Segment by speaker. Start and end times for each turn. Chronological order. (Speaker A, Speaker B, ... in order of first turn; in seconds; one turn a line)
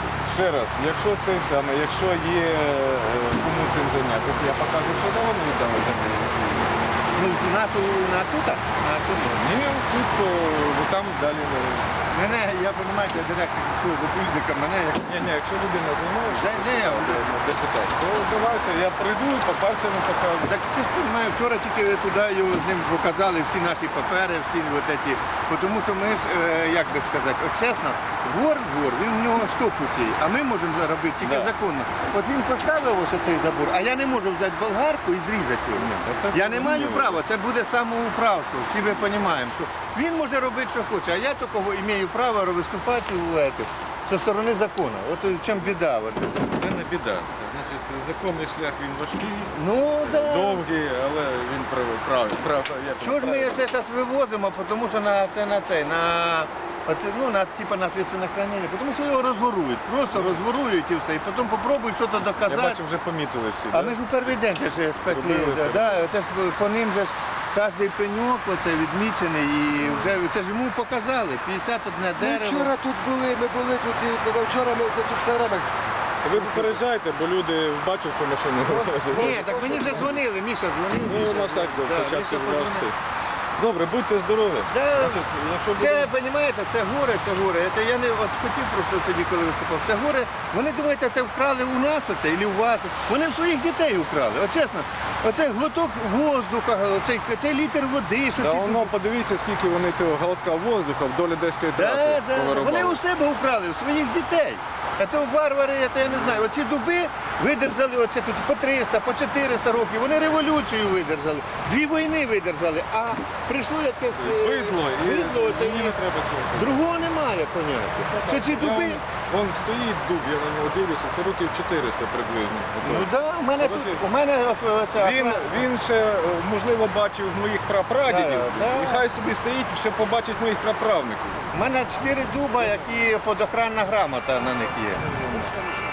Speaker A: 0.2-6.7
Speaker B: 7.2-9.4
Speaker A: 9.3-12.0
Speaker B: 12.1-15.2
Speaker A: 15.1-20.5
Speaker B: 16.2-17.5
Speaker B: 20.4-46.5
Speaker A: 31.2-31.5
Speaker A: 35.8-37.2
Speaker A: 46.4-53.6
Speaker B: 49.5-50.6
Speaker B: 53.0-62.8
Speaker A: 60.1-60.4
Speaker A: 62.4-64.0
Speaker B: 63.7-72.7
Speaker A: 65.0-66.0
Speaker C: 72.2-75.7
Speaker A: 76.2-80.0
Speaker C: 76.3-76.8
Speaker C: 78.6-80.2
Speaker B: 79.1-82.9
Speaker A: 81.0-83.0
Speaker A: 83.6-86.1
Speaker B: 84.7-85.2
Speaker B: 85.7-98.9
Speaker A: 98.4-103.0
Speaker B: 101.8-116.0
Speaker A: 106.1-106.4
Speaker A: 114.2-116.8
Speaker B: 116.5-119.0
Speaker A: 118.2-124.0
Speaker B: 122.8-125.7
Speaker A: 125.0-131.5
Speaker B: 128.0-129.1
Speaker B: 131.5-135.1
Speaker A: 135.1-135.6